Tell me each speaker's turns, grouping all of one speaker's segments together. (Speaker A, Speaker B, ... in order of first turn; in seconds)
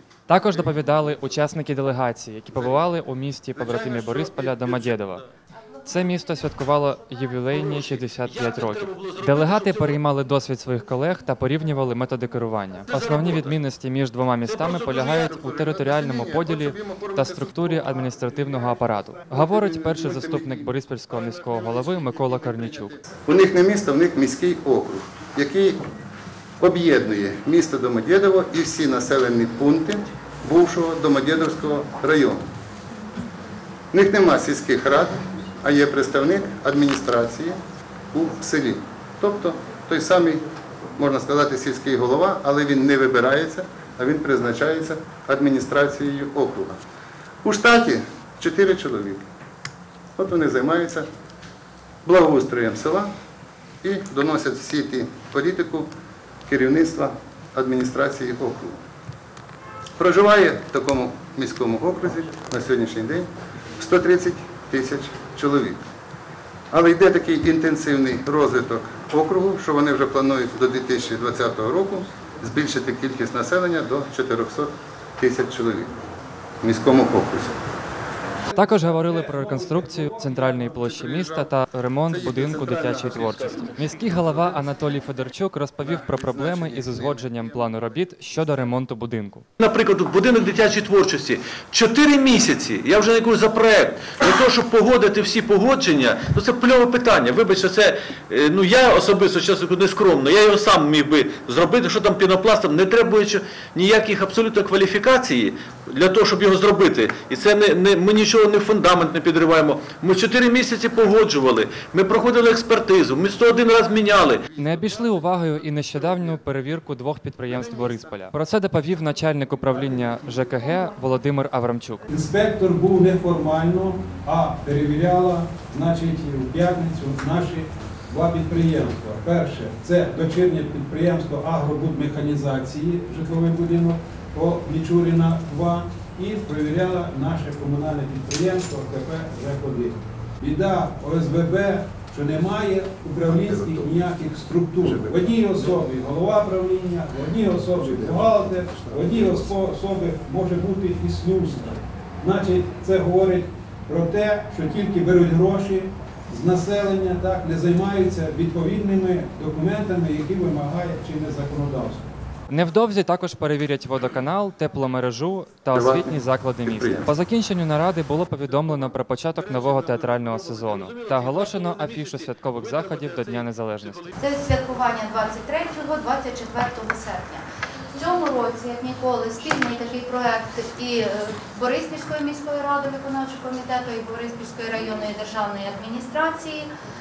Speaker A: 0.3-5.2, 5.8-23.0, 78.5-89.5, 114.5-122.0, 162.5-174.2
Speaker B: 3.6-5.2, 7.5-10.0, 12.9-13.6, 14.4-15.4, 82.6-83.7, 89.6-114.4, 169.3-174.3
Speaker C: 15.1-25.8, 26.6-32.4, 33.9-37.6, 38.1-40.4, 41.0-46.8, 47.4-49.2, 50.2-51.1, 52.0-53.1, 53.8-55.9, 56.5-58.8, 60.0-65.8, 66.7-75.9, 76.6-77.5, 80.6-84.5, 85.8-88.5, 113.9-115.5, 117.6-118.1, 143.3-144.1, 144.8-145.7, 147.7-149.6, 165.7-167.1
Speaker D: 78.9-80.4, 122.1-162.1
Speaker E: 174.2-186.7